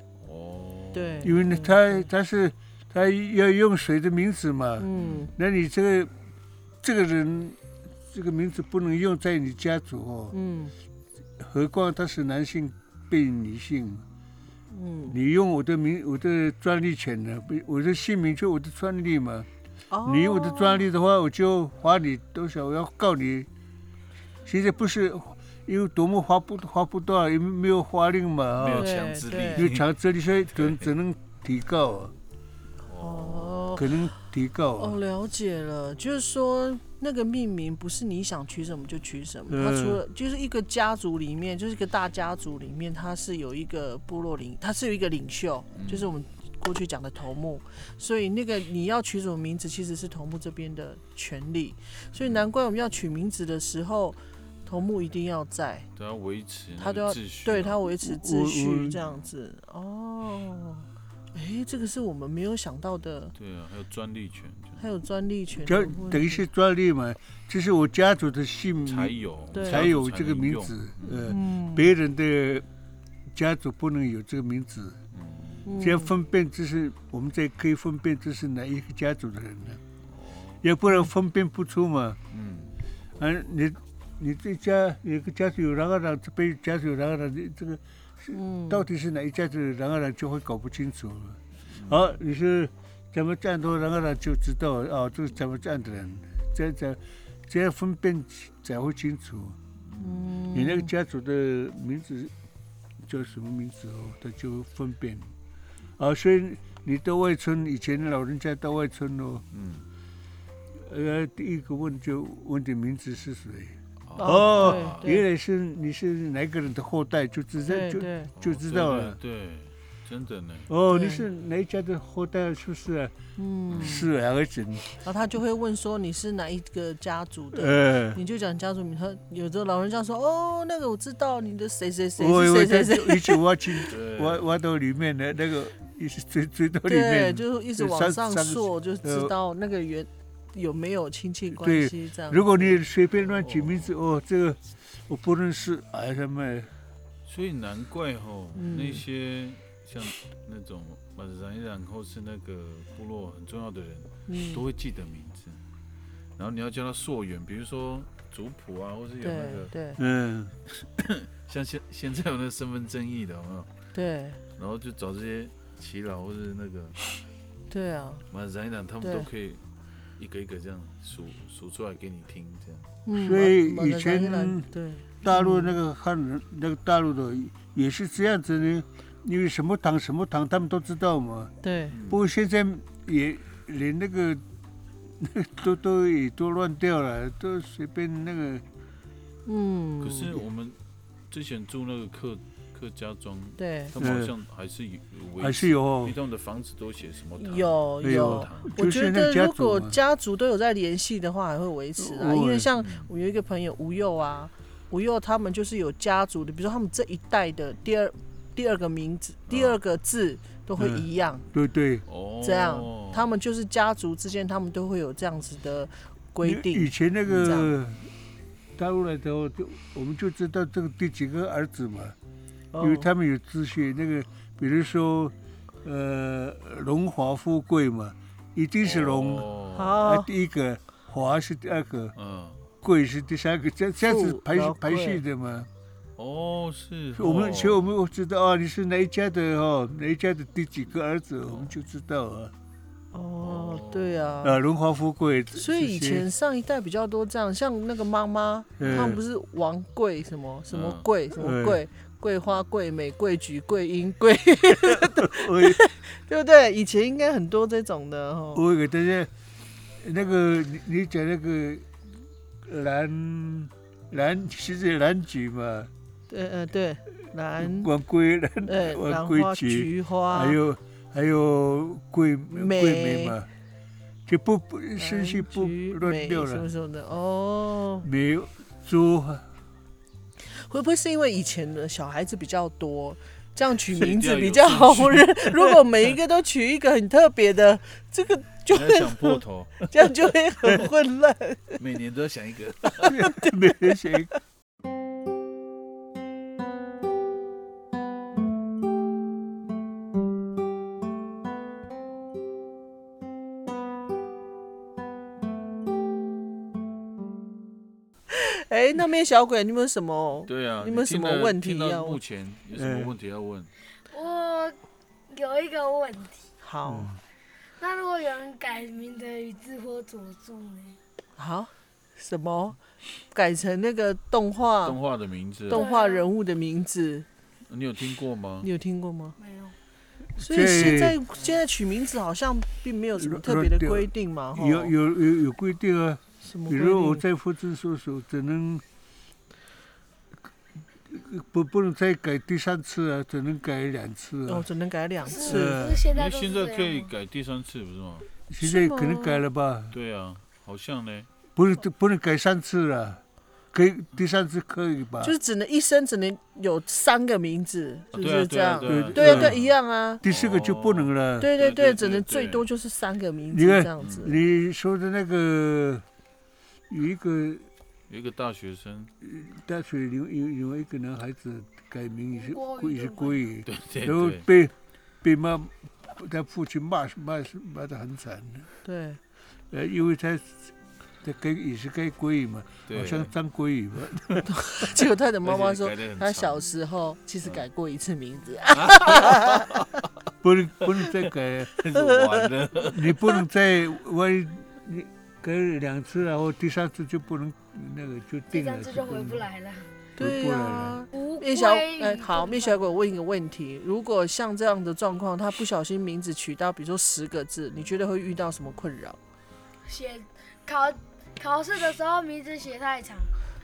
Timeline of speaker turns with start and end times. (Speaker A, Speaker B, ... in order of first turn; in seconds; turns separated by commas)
Speaker A: 0.2-1.3, Speaker B: 0.9-2.1, Speaker C: 1.2-6.1, Speaker B: 4.8-5.3, Speaker A: 4.9-5.3, Speaker C: 6.8-7.6, Speaker C: 8.1-10.3, Speaker B: 10.3-10.7, Speaker C: 11.4-14.0, Speaker B: 14.7-15.2, Speaker C: 15.1-19.5, Speaker B: 19.9-20.9, Speaker C: 20.1-23.5, Speaker C: 24.4-28.9, Speaker A: 28.6-29.9, Speaker B: 28.8-29.7, Speaker C: 29.6-32.1, Speaker A: 30.6-30.9, Speaker A: 32.9-33.8, Speaker B: 33.0-34.0, Speaker C: 33.8-35.0, Speaker B: 34.8-55.9, Speaker C: 39.5-40.0, Speaker A: 45.7-46.1, Speaker A: 56.0-57.8, Speaker B: 56.8-63.3, Speaker C: 58.0-59.0, Speaker A: 63.4-64.8, Speaker B: 64.8-66.5, Speaker C: 65.7-72.7, Speaker A: 68.8-71.3, Speaker B: 69.5-69.9, Speaker B: 71.3-71.9, Speaker C: 73.3-75.0, Speaker A: 75.1-75.7, Speaker B: 75.7-76.1, Speaker C: 75.8-79.8, Speaker A: 80.1-80.7, Speaker C: 80.6-82.2, Speaker A: 82.3-82.8, Speaker C: 83.2-99.6, Speaker B: 88.3-88.8, Speaker A: 91.7-92.1, Speaker A: 99.8-100.2, Speaker B: 100.0-100.9, Speaker C: 100.5-102.3, Speaker C: 103.0-105.3, Speaker C: 106.0-109.4, Speaker A: 109.5-109.9, Speaker C: 110.8-119.2, Speaker A: 114.1-115.1, Speaker B: 114.2-115.2, Speaker B: 117.7-118.3, Speaker A: 118.4-120.7, Speaker C: 120.7-123.1, Speaker B: 120.9-121.3, Speaker B: 123.4-124.1, Speaker A: 123.7-124.0, Speaker C: 123.8-124.9, Speaker B: 125.0-133.9, Speaker C: 127.5-128.2, Speaker C: 132.2-139.3, Speaker A: 133.9-134.5, Speaker B: 136.9-142.8, Speaker C: 141.5-146.7, Speaker A: 143.2-143.9, Speaker A: 147.2-155.6, Speaker B: 148.6-149.0, Speaker B: 154.3-154.6, Speaker A: 156.4-159.7, Speaker B: 159.2-160.0, Speaker C: 160.0-160.8, Speaker A: 161.0-163.7, Speaker B: 163.9-164.4, Speaker A: 164.6-167.0, Speaker B: 167.7-168.2, Speaker A: 168.3-169.6, Speaker B: 169.0-169.3, Speaker A: 170.2-172.9, Speaker B: 173.1-175.8, Speaker C: 173.2-174.7, Speaker C: 175.2-181.5, Speaker B: 181.6-181.9, Speaker A: 181.9-182.2, Speaker C: 182.1-184.4, Speaker C: 185.2-188.6, Speaker B: 189.5-190.4, Speaker A: 190.0-190.8, Speaker A: 191.3-198.8, Speaker B: 193.6-193.9, Speaker C: 194.0-194.3, Speaker C: 195.4-196.2, Speaker B: 197.4-211.5, Speaker C: 198.0-200.0, Speaker C: 202.0-202.7, Speaker A: 202.8-203.1, Speaker A: 209.5-209.8, Speaker C: 210.8-212.0, Speaker A: 212.1-213.3, Speaker B: 212.4-217.7, Speaker C: 216.4-218.1, Speaker A: 217.3-217.6, Speaker C: 218.8-222.2, Speaker B: 222.7-223.1, Speaker C: 222.8-232.1, Speaker A: 228.8-230.0, Speaker B: 229.7-230.3, Speaker A: 232.2-232.6, Speaker C: 232.8-235.7, Speaker B: 234.0-235.2, Speaker A: 236.2-237.9, Speaker C: 237.2-242.5, Speaker B: 243.1-244.6, Speaker A: 243.4-244.4, Speaker C: 244.4-246.3, Speaker B: 245.6-258.6, Speaker C: 248.8-249.2, Speaker A: 248.8-249.2, Speaker A: 250.7-251.1, Speaker C: 251.4-251.8, Speaker C: 254.7-255.8, Speaker C: 258.6-259.3, Speaker C: 260.0-261.9, Speaker C: 262.6-265.9, Speaker B: 266.3-267.9, Speaker C: 267.6-273.5, Speaker B: 268.6-270.6, Speaker B: 272.5-273.4, Speaker C: 274.3-276.7, Speaker B: 275.0-278.1, Speaker C: 278.0-279.5, Speaker B: 280.4-291.8, Speaker A: 283.9-285.7, Speaker A: 288.7-289.9, Speaker A: 291.8-293.2, Speaker C: 293.0-294.3, Speaker B: 293.1-293.6, Speaker B: 308.3-312.2, Speaker A: 310.5-313.7, Speaker C: 312.7-313.1, Speaker D: 314.1-314.8, Speaker D: 315.3-316.5, Speaker B: 316.6-317.1, Speaker C: 316.9-317.2, Speaker D: 317.8-321.0, Speaker B: 321.4-322.8, Speaker B: 323.3-325.0, Speaker A: 324.8-325.8, Speaker B: 325.7-327.3, Speaker D: 325.7-326.3, Speaker A: 327.7-328.7, Speaker B: 328.6-329.4, Speaker D: 329.4-329.8, Speaker B: 330.4-334.9, Speaker C: 330.4-331.2, Speaker C: 333.2-338.8, Speaker B: 336.4-337.2, Speaker C: 341.1-344.7, Speaker B: 344.5-345.8, Speaker D: 345.2-347.1, Speaker C: 345.4-346.1, Speaker A: 346.1-348.3, Speaker C: 348.5-350.0, Speaker B: 348.6-349.4, Speaker A: 349.9-351.3, Speaker C: 351.6-353.2, Speaker C: 353.7-355.3, Speaker B: 355.2-360.2, Speaker A: 358.1-359.7, Speaker C: 358.8-359.6, Speaker C: 360.2-361.5, Speaker A: 360.2-362.6, Speaker B: 361.4-364.4, Speaker C: 363.5-366.1, Speaker A: 364.0-364.3, Speaker C: 366.9-367.7, Speaker A: 368.1-369.1, Speaker C: 369.2-378.7, Speaker D: 372.3-373.4, Speaker A: 373.7-374.4, Speaker B: 378.8-379.2, Speaker C: 379.7-384.4, Speaker A: 382.9-383.3, Speaker B: 384.5-389.8, Speaker A: 385.4-386.6, Speaker A: 388.8-389.9, Speaker C: 390.4-391.8, Speaker A: 391.8-393.2, Speaker B: 391.9-392.5, Speaker C: 392.8-399.4, Speaker D: 398.5-399.9, Speaker B: 400.2-409.2, Speaker C: 400.2-401.0, Speaker D: 401.1-402.9, Speaker D: 409.9-413.3